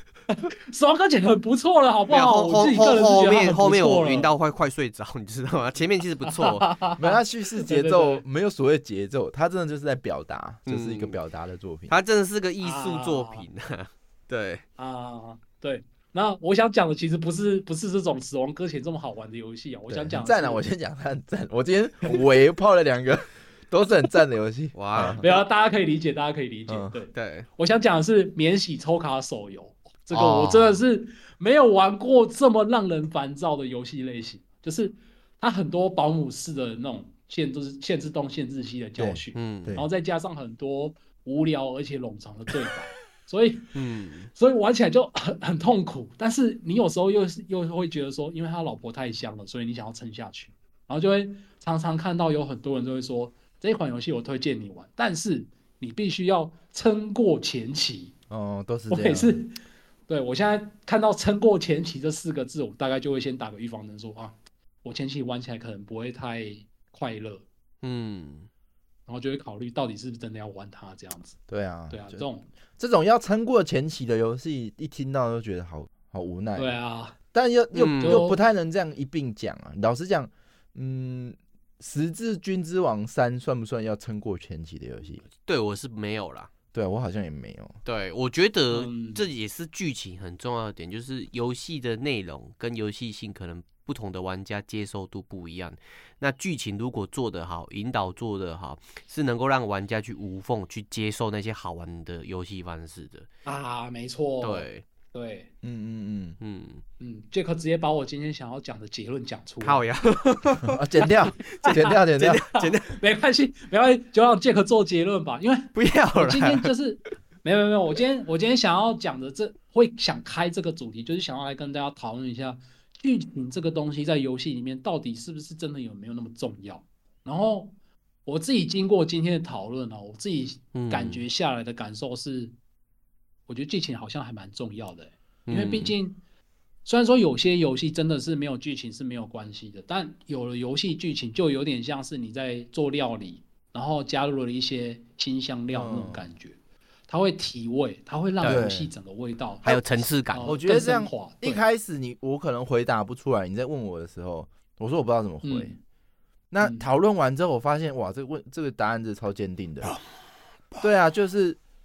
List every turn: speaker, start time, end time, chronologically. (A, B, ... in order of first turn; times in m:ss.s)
0:00.3-0:04.3 A
0:02.1-0:06.7 B
0:06.3-0:08.2 A
0:07.0-0:12.0 C
0:10.7-0:11.1 B
0:11.9-0:14.6 B
0:12.6-0:13.4 A
0:14.8-0:20.6 A
0:19.9-0:25.3 C
0:24.7-0:25.3 B
0:25.1-0:43.7 A
0:26.7-0:27.0 C
0:27.1-0:27.5 B
0:30.1-0:30.8 B
0:39.0-0:39.9 C
0:39.4-0:39.8 B
0:43.7-0:44.3 B
0:44.3-0:58.2 A
0:58.3-0:59.4 C
0:58.9-0:59.6 A
1:00.1-1:07.4 A
1:07.8-1:08.5 B
1:09.1-1:11.4 A
1:11.5-1:12.2 C
1:11.9-1:12.5 A
1:12.8-1:16.8 C
1:16.6-1:17.2 A
1:17.3-1:25.2 C
1:17.7-1:18.3 B
1:18.0-1:18.4 A
1:25.3-1:26.5 B
1:26.7-1:27.8 C
1:27.8-1:43.3 B
1:28.7-1:29.2 A
1:43.5-1:45.5 A
1:44.4-1:44.8 B
1:45.6-1:46.4 C
1:46.4-1:46.8 B
1:47.0-1:49.8 A
1:49.6-1:50.8 B
1:50.6-1:52.4 C
1:51.4-1:53.0 B
1:51.6-1:51.9 A
1:52.5-2:07.7 A
1:55.7-1:56.7 B
2:08.3-2:12.5 A
2:10.7-2:11.2 B
2:13.5-2:16.2 A
2:15.5-2:15.9 B
2:16.8-2:26.6 A
2:25.7-2:26.3 C
2:27.1-2:31.6 A
2:28.4-2:28.9 C
2:29.6-2:30.6 B
2:30.4-2:35.8 C
2:35.4-2:35.8 A
2:36.5-2:40.0 C
2:36.6-2:36.9 A
2:40.8-2:41.6 C